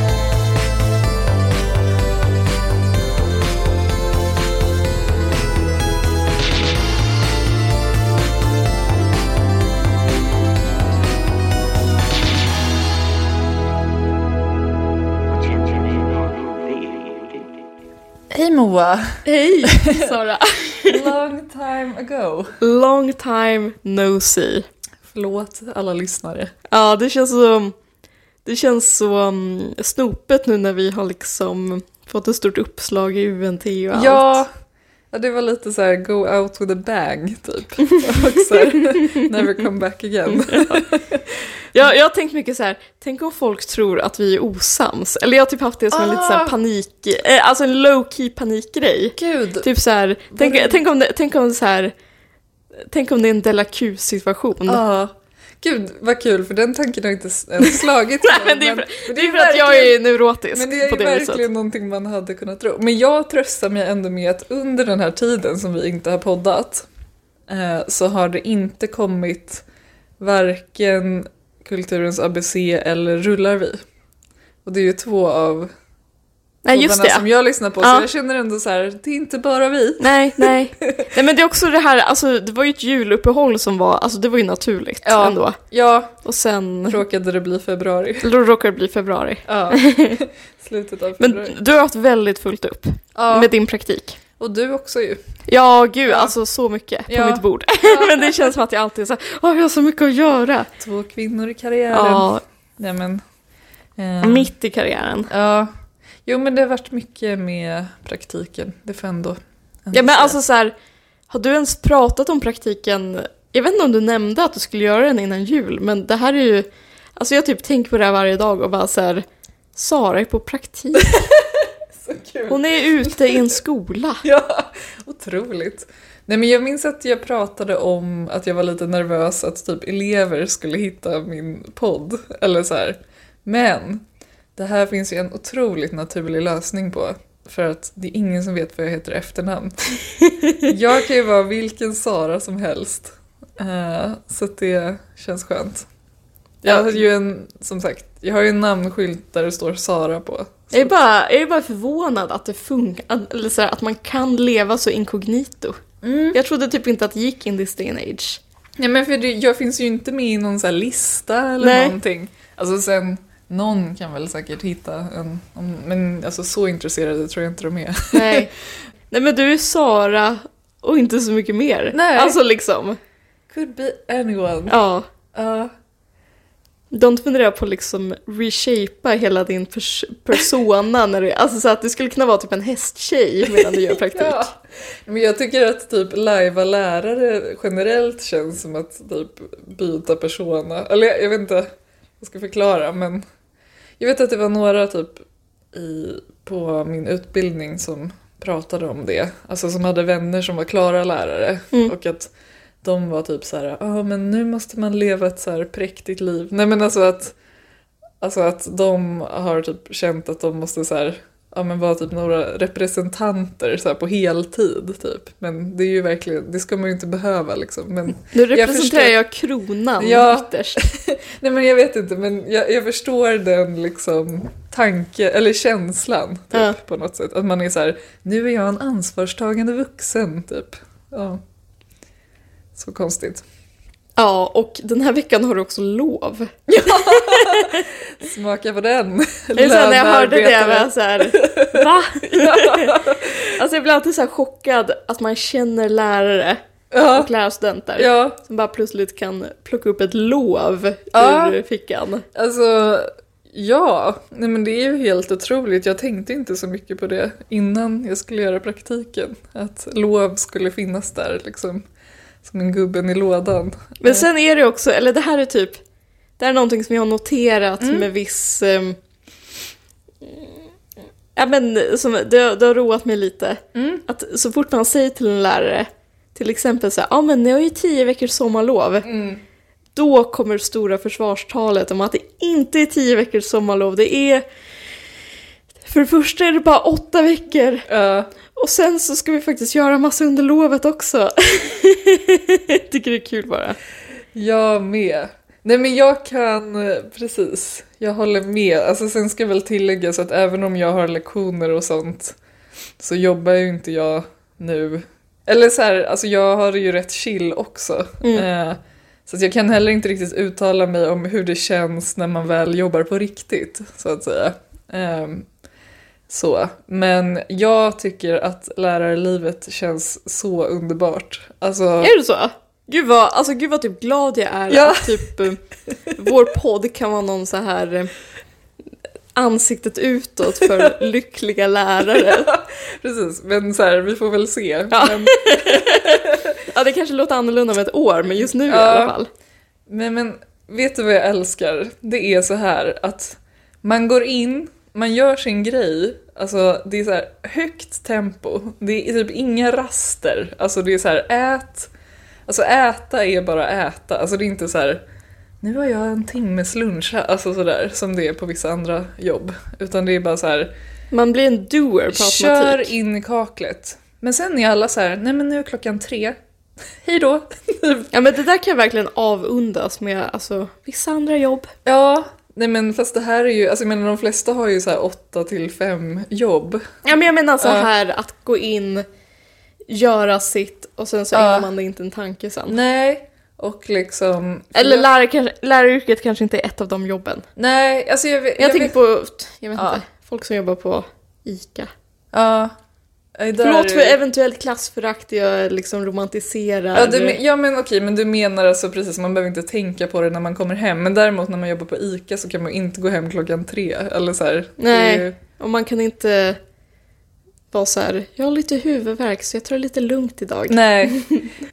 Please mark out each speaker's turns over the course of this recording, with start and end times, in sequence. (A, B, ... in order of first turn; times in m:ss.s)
0:15.3-0:17.6 A
0:18.3-0:20.1 B
0:19.2-0:21.0 C
0:20.8-0:22.6 B
0:22.6-0:24.6 C
0:25.0-0:26.5 B
0:26.7-0:27.7 C
0:28.4-0:34.4 C
0:33.9-0:34.5 B
0:35.1-0:41.4 B
0:40.3-0:40.8 C
0:41.7-0:51.9 C
0:45.9-0:46.5 B
0:49.2-0:49.7 B
0:50.3-0:50.8 B
0:52.9-0:54.8 C
0:54.7-1:00.0 B
0:57.7-1:01.4 C
1:00.5-1:06.9 B
1:07.5-1:09.6 B
1:10.2-1:13.8 B
1:14.6-1:15.7 B
1:16.6-1:17.2 C
1:16.7-1:21.1 B
1:17.8-1:18.0 C
1:20.0-1:25.6 C
1:25.0-1:26.2 B
1:26.2-1:27.0 C
1:26.9-1:28.3 B
1:28.2-1:30.2 C
1:29.5-1:31.6 B
1:31.2-1:34.2 C
1:33.1-1:33.5 B
1:34.4-1:35.2 B
1:35.5-1:40.7 C
1:36.0-1:36.3 B
1:37.1-1:38.5 B
1:40.8-1:43.2 B
1:41.9-1:42.4 C
1:44.0-1:44.5 B
1:44.2-1:45.3 C
1:45.3-1:45.7 B
1:46.2-1:50.4 B
1:49.9-1:50.7 C
1:51.3-2:01.2 C
2:01.0-2:03.6 B
2:02.5-2:04.2 C
2:04.2-2:14.0 B
2:14.6-2:19.9 B
2:20.4-2:20.7 C
2:20.6-2:25.9 B
2:26.6-2:30.9 B
2:26.6-2:27.0 C
2:30.7-2:35.8 C
2:36.0-2:36.4 B
2:36.3-2:38.4 C
2:38.8-2:48.5 B
2:41.6-2:42.0 C
2:48.1-2:48.5 C
2:49.1-2:53.0 C
2:51.9-2:52.4 B
2:53.5-2:54.7 B
2:54.7-2:55.0 C
2:55.3-2:55.7 B
2:56.9-3:04.5 C
3:03.5-3:11.7 B
3:12.2-3:13.2 B
3:14.0-3:27.3 B
3:28.2-3:39.1 B
3:38.3-3:40.8 C
3:40.0-3:51.4 B
3:46.5-3:46.8 C
3:52.7-3:53.4 B
3:54.2-3:57.8 C
3:56.7-4:03.5 B
3:59.5-4:03.0 C
4:03.5-4:12.2 C
4:06.9-4:07.3 B
4:08.0-4:08.4 B
4:11.1-4:11.6 B
4:12.3-4:21.8 B
4:22.4-4:24.2 B
4:24.0-4:25.8 C
4:26.4-4:29.0 C
4:27.8-4:28.1 B
4:31.3-4:39.1 C
4:33.7-4:34.0 B
4:39.0-4:39.4 B
4:40.0-4:44.4 C
4:45.8-4:47.9 C
4:47.9-4:48.3 B
4:48.5-4:53.8 C
4:54.3-5:02.4 B
5:03.0-5:15.5 B
5:16.3-5:22.1 B
5:22.0-5:25.6 C
5:24.7-5:25.3 B
5:26.1-5:28.1 C
5:29.3-5:32.5 C
5:32.1-5:36.6 B
5:34.9-5:39.3 C
5:38.6-5:39.1 B
5:39.9-5:51.9 B
5:52.5-5:55.0 B
5:55.6-6:00.7 B
6:01.1-6:02.9 C
6:02.1-6:06.4 B
6:07.0-6:08.1 B
6:08.1-6:11.7 C
6:11.8-6:16.8 B
6:17.0-6:19.0 C
6:17.6-6:17.9 B
6:19.9-6:22.8 C
6:21.3-6:21.7 B
6:22.7-6:25.1 B
6:24.7-6:27.4 C
6:27.6-6:28.9 B
6:28.6-6:31.9 C
6:29.7-6:30.0 B
6:32.3-6:32.7 B
6:33.4-6:34.2 B
6:33.6-6:37.4 C
6:36.9-6:45.4 B
6:44.8-6:46.6 C
6:47.7-6:51.5 C
6:50.7-6:51.2 B